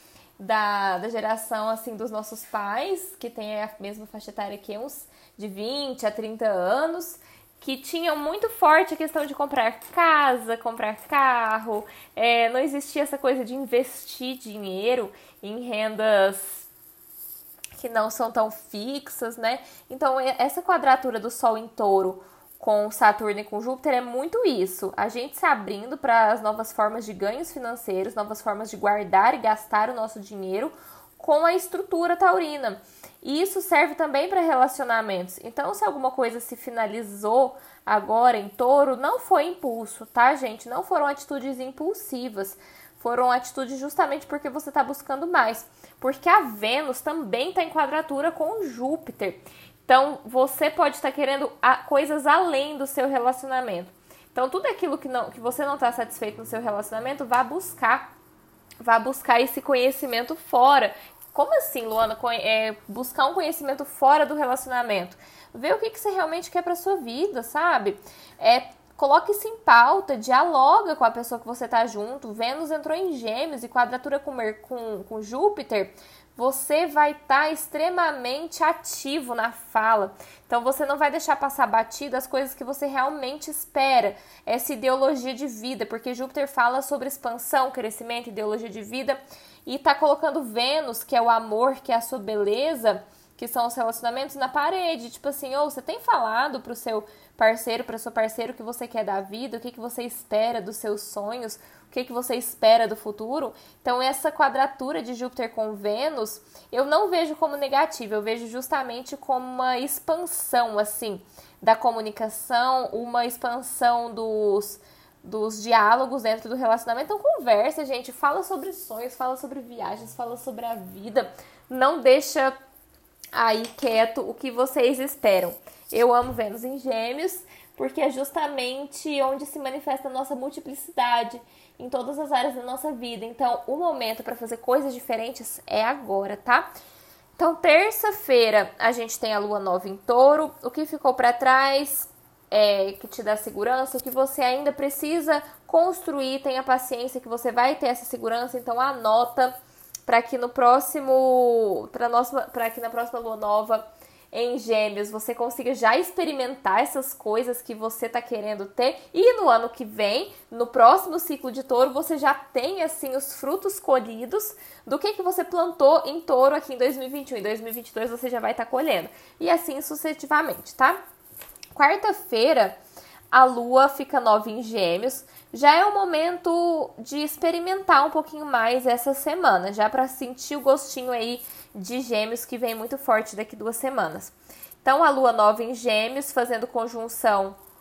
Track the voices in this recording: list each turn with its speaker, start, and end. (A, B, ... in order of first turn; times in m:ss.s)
0:00.4-0:16.7 A
0:17.7-0:58.0 A
0:58.8-2:02.5 A
2:03.3-2:16.7 A
2:17.4-2:29.5 A
2:30.1-2:51.0 A
2:51.7-2:52.8 A
2:53.3-3:07.6 A